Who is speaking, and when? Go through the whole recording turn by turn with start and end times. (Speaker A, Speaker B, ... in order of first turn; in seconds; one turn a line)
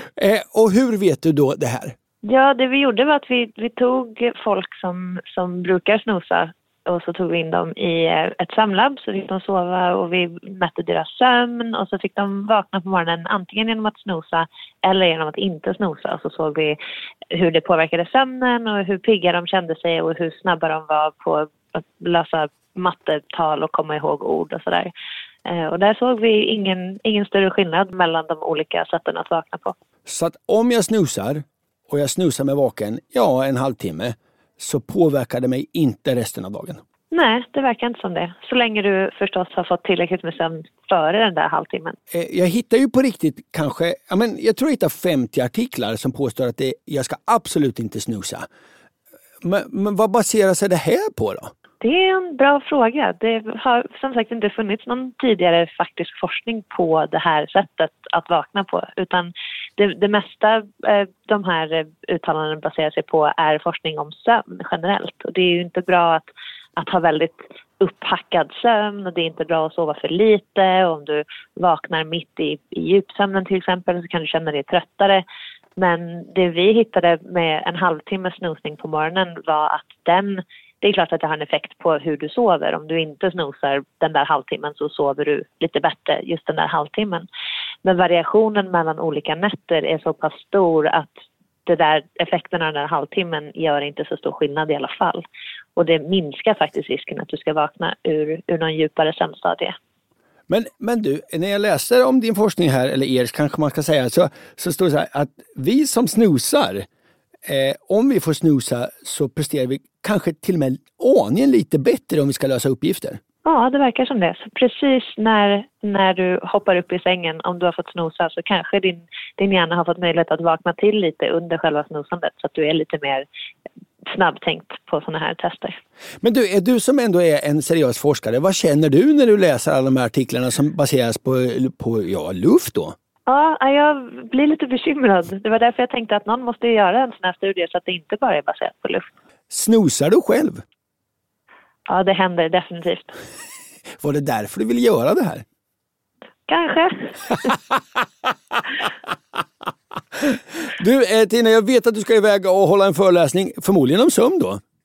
Speaker A: 0.1-2.0
Speaker B: 2.2-16.8
Speaker B: 17.3-24.9
Speaker B: 25.4-29.7
Speaker A: 30.1-36.8
Speaker B: 37.1-42.0
Speaker A: 42.1-48.5
Speaker A: 49.4-51.5
Speaker B: 51.8-75.2
Speaker B: 75.8-87.2
Speaker B: 87.8-91.1
Speaker B: 91.7-95.2
Speaker B: 95.8-99.8
Speaker A: 100.5-106.9
Speaker A: 107.4-113.2
Speaker B: 113.4-123.2
Speaker B: 124.1-125.8
Speaker A: 126.2-132.9
Speaker B: 133.3-139.1
Speaker A: 139.5-140.6
Speaker B: 141.9-143.1
Speaker A: 144.0-145.4
Speaker B: 146.5-147.5
Speaker A: 150.1-154.6